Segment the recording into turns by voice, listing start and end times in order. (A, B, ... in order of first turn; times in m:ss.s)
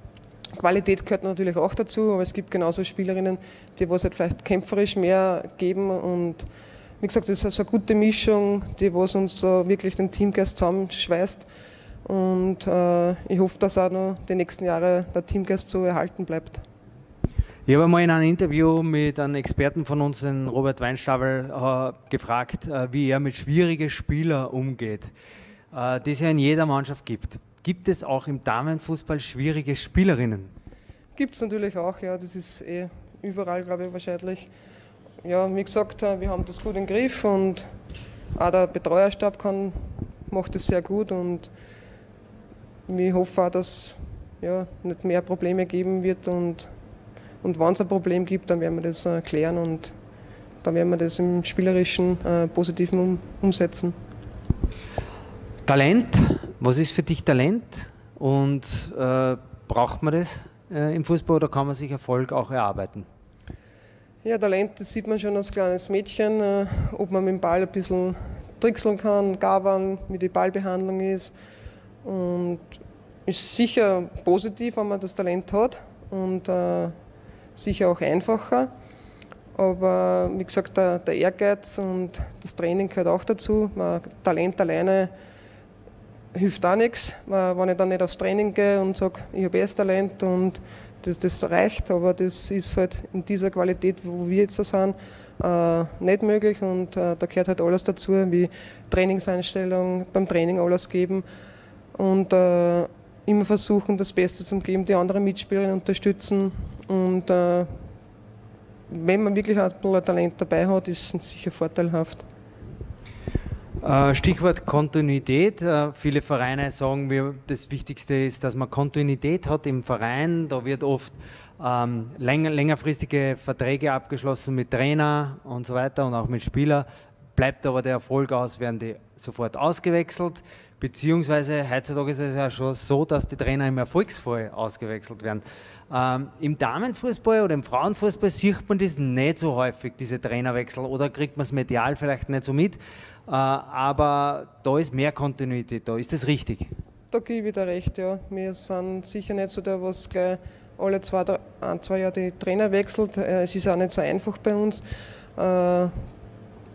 0:00.5-0:06.5 A
0:07.0-0:11.5 A
0:12.0-0:16.6 A
0:17.7-0:25.1 B
0:25.7-0:30.5 B
0:31.2-0:34.5 A
0:35.2-0:37.7 A
0:38.4-0:41.5 A
0:42.9-0:46.7 A
0:47.4-0:49.9 A
0:50.6-0:54.0 A
0:55.6-1:03.1 B
1:04.2-1:11.3 A
1:12.0-1:17.0 A
1:17.6-1:18.7 A
1:19.5-1:25.1 A
1:26.3-1:41.2 A
1:41.9-1:47.9 A
1:48.9-1:52.2 A
1:53.8-2:26.7 B
2:27.1-2:34.8 A
2:35.4-2:36.0 A